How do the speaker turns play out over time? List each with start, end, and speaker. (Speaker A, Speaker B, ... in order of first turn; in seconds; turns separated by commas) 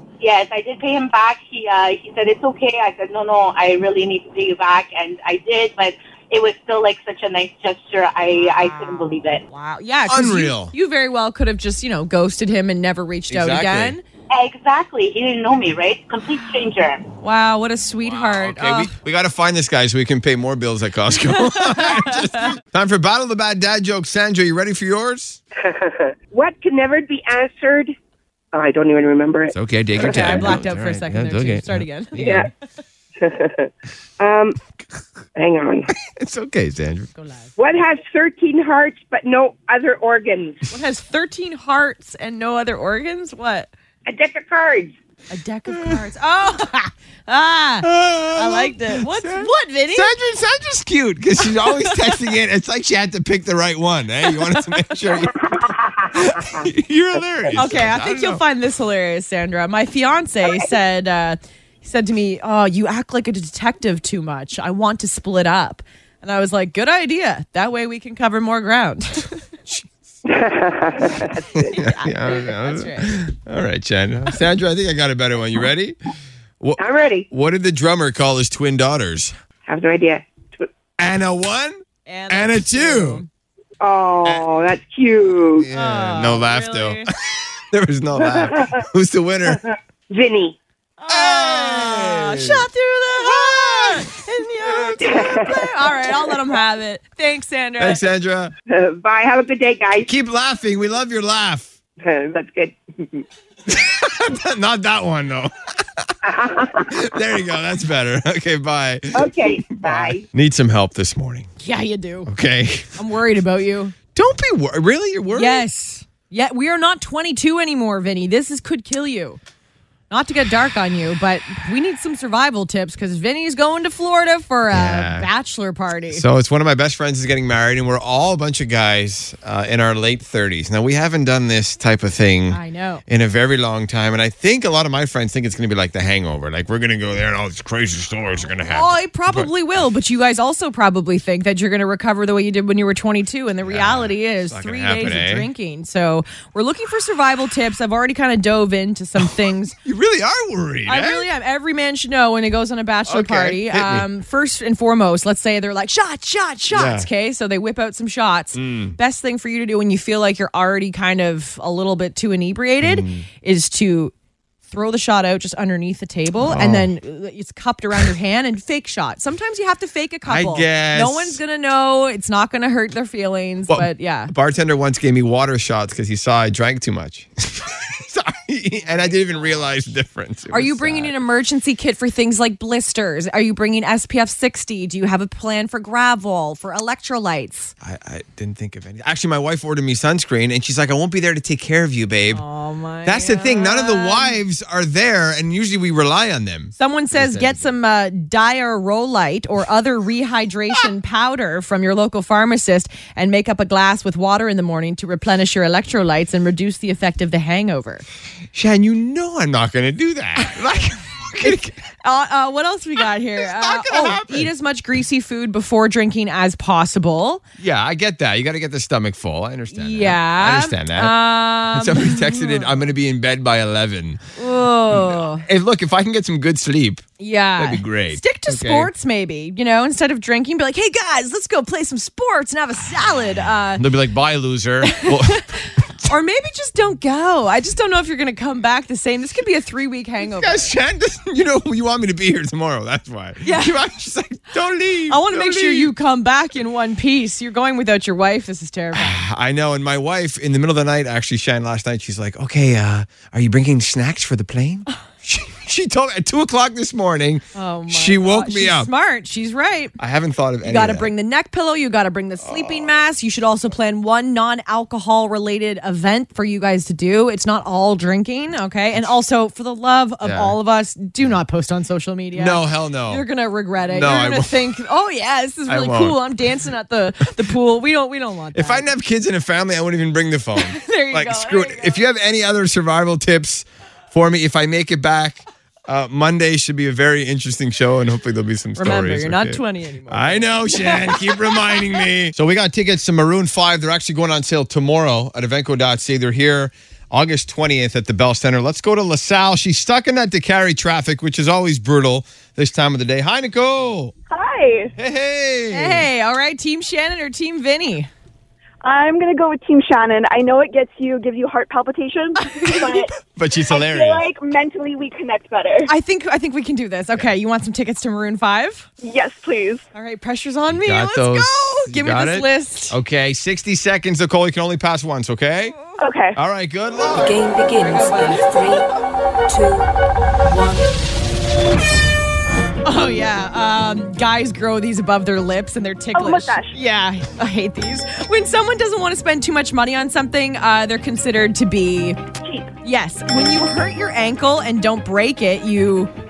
Speaker A: 0.2-9.4, Speaker B: 8.3-14.0, Speaker C: 10.1-10.7, Speaker C: 13.3-14.0, Speaker A: 14.3-17.0, Speaker B: 17.2-18.9, Speaker C: 18.0-25.4, Speaker B: 21.4-22.5, Speaker D: 25.6-27.9, Speaker D: 28.5-30.6, Speaker C: 29.5-32.5, Speaker B: 29.9-32.5, Speaker D: 32.1-32.5, Speaker D: 33.2-34.6, Speaker D: 35.4-35.9, Speaker C: 35.9-37.1, Speaker B: 37.1-37.5, Speaker D: 37.6-40.6, Speaker B: 40.7-43.7, Speaker D: 44.0-45.0, Speaker B: 45.3-50.1, Speaker C: 45.7-46.0, Speaker C: 47.8-58.4, Speaker B: 51.6-52.2, Speaker B: 54.3-55.1, Speaker D: 55.4-56.6, Speaker B: 57.5-69.4, Speaker C: 69.7-70.1, Speaker D: 70.2-71.7, Speaker C: 71.6-76.0, Speaker B: 71.6-73.2, Speaker C: 76.6-79.3, Speaker D: 76.8-77.3, Speaker D: 79.7-80.7, Speaker C: 81.0-83.2, Speaker B: 82.1-83.3, Speaker D: 83.8-85.7, Speaker C: 85.6-89.6, Speaker B: 85.7-87.1, Speaker D: 88.2-88.8, Speaker D: 90.1-90.6, Speaker B: 91.0-98.0, Speaker C: 91.1-95.3, Speaker D: 95.0-96.1, Speaker C: 97.8-98.5, Speaker D: 98.7-100.1, Speaker C: 100.0-101.7, Speaker D: 102.0-103.2, Speaker C: 103.7-106.1, Speaker D: 106.2-106.9, Speaker C: 106.7-111.5, Speaker D: 109.1-110.2, Speaker B: 111.6-112.3, Speaker C: 112.2-113.0, Speaker B: 113.0-113.9, Speaker C: 114.1-115.6, Speaker B: 115.3-119.4, Speaker B: 120.1-126.2, Speaker C: 124.7-125.3, Speaker C: 126.1-139.5, Speaker B: 132.5-133.0, Speaker B: 138.6-149.7, Speaker C: 143.6-145.5, Speaker C: 149.8-151.3, Speaker B: 150.8-164.1, Speaker C: 153.1-154.1, Speaker C: 156.7-157.1, Speaker C: 158.5-159.0, Speaker C: 162.8-163.3, Speaker B: 164.7-174.3, Speaker C: 166.4-166.9, Speaker C: 170.2-171.4, Speaker C: 173.7-181.2, Speaker B: 178.8-179.6, Speaker B: 180.5-187.7, Speaker C: 187.8-192.4, Speaker B: 192.3-194.4, Speaker C: 193.0-197.7, Speaker B: 196.8-208.0, Speaker C: 208.5-211.8, Speaker B: 211.4-217.4, Speaker C: 213.0-214.5, Speaker C: 217.6-224.2, Speaker B: 219.7-222.7, Speaker B: 224.4-225.4, Speaker C: 224.9-227.0, Speaker B: 227.2-233.8, Speaker C: 227.6-228.9, Speaker C: 233.8-236.1, Speaker B: 234.8-240.7, Speaker C: 240.2-245.9, Speaker B: 243.4-243.8, Speaker B: 245.1-249.2, Speaker C: 248.9-258.9, Speaker B: 257.5-259.9, Speaker C: 260.0-261.1, Speaker B: 260.6-278.9, Speaker C: 262.4-263.0, Speaker C: 270.2-270.6, Speaker C: 272.3-273.2, Speaker C: 273.8-274.7, Speaker C: 275.7-276.3, Speaker C: 278.5-304.1, Speaker B: 280.6-282.0, Speaker B: 288.8-291.9, Speaker E: 304.3-304.9, Speaker C: 305.0-306.1, Speaker B: 305.7-308.1, Speaker E: 308.8-313.1, Speaker B: 312.4-313.0, Speaker C: 312.8-314.2, Speaker E: 313.6-315.9, Speaker B: 315.9-318.9, Speaker E: 319.0-319.8, Speaker B: 319.9-323.0, Speaker C: 320.7-325.8, Speaker E: 326.0-326.4, Speaker C: 326.3-327.4, Speaker F: 327.1-328.9, Speaker B: 327.8-328.5, Speaker F: 329.5-329.9, Speaker F: 330.4-330.9, Speaker B: 332.8-342.2, Speaker E: 336.1-336.8, Speaker E: 342.4-342.7, Speaker B: 342.8-346.1